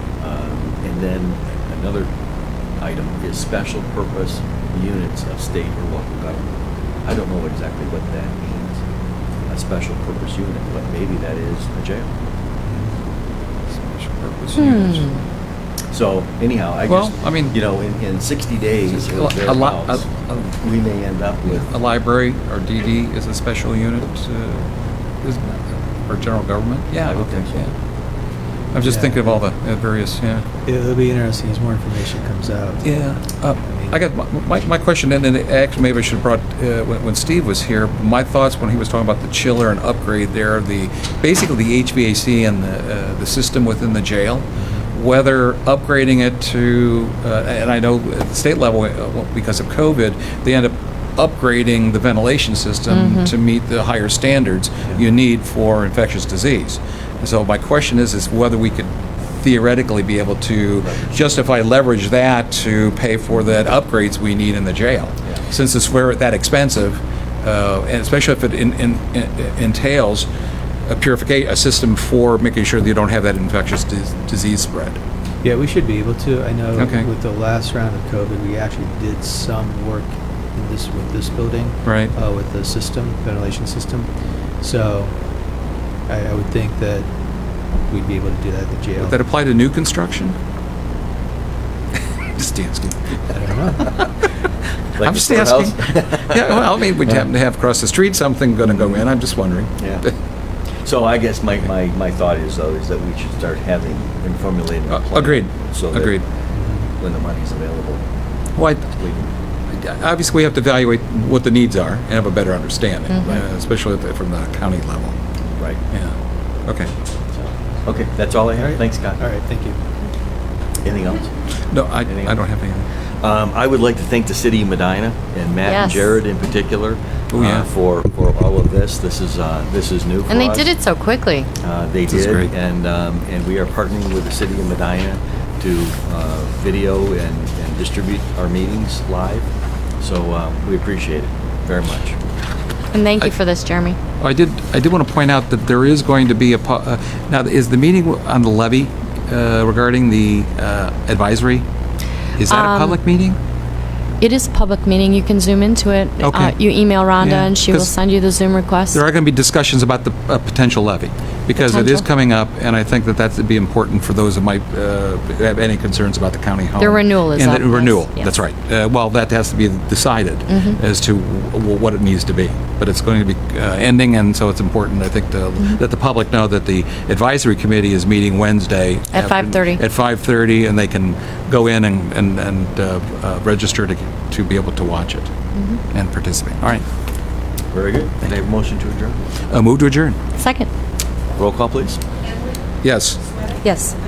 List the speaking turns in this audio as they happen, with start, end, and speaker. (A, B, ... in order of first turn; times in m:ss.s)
0:00.2-0:02.1 A
0:02.8-0:06.5 A
0:07.0-0:08.8 A
0:09.5-0:12.1 A
0:12.7-0:12.9 B
0:13.7-0:15.2 C
0:14.6-0:15.2 D
0:15.9-0:21.7 A
0:16.8-0:17.6 C
0:18.9-0:20.5 C
0:21.5-0:24.7 C
0:25.2-0:27.7 C
0:27.0-0:27.6 A
0:28.7-0:30.4 C
0:28.8-0:29.4 B
0:30.6-0:33.1 B
0:32.8-1:10.3 C
0:33.6-0:34.0 B
0:44.6-0:44.8 B
0:52.9-0:53.3 D
1:00.8-1:01.5 A
1:10.9-1:15.0 C
1:15.4-1:24.1 B
1:16.8-1:17.1 C
1:21.8-1:22.1 C
1:24.6-1:25.1 B
1:26.1-1:27.1 B
1:27.9-1:29.2 B
1:29.0-1:30.3 C
1:32.3-1:33.2 C
1:33.3-1:34.0 B
1:33.8-1:34.1 C
1:35.0-1:36.9 A
1:35.0-1:40.1 C
1:39.8-1:40.0 A
1:40.8-1:46.2 A
1:44.9-1:46.2 C
1:46.5-1:46.8 B
1:46.9-1:48.0 A
1:48.6-1:48.9 C
1:49.0-1:49.3 A
1:49.7-1:55.1 C
1:53.2-1:53.4 A
1:56.6-1:56.9 C
1:57.3-1:59.2 A
1:58.6-1:59.8 B
2:00.8-2:01.3 A
2:01.7-2:02.8 C
2:02.0-2:02.4 A
2:03.2-2:10.7 A
2:05.6-2:06.0 D
2:07.3-2:07.7 C
2:10.3-2:11.5 D
2:11.6-2:22.2 A
2:12.1-2:12.5 C
2:22.9-2:24.0 D
2:24.2-2:31.6 C
2:32.4-2:33.4 C
2:32.5-2:33.0 D
2:34.2-2:39.0 D
2:36.2-2:37.9 C
2:38.9-3:05.3 C
2:41.6-2:42.0 D
2:46.8-2:48.3 D
2:50.5-2:50.8 D
2:59.1-2:59.8 D
3:05.5-3:05.8 D
3:05.9-3:06.8 C
3:07.7-3:09.2 A
3:09.5-3:10.2 C
3:10.4-3:10.7 D
3:11.4-3:12.0 A
3:12.8-3:13.2 C
3:13.6-3:14.0 D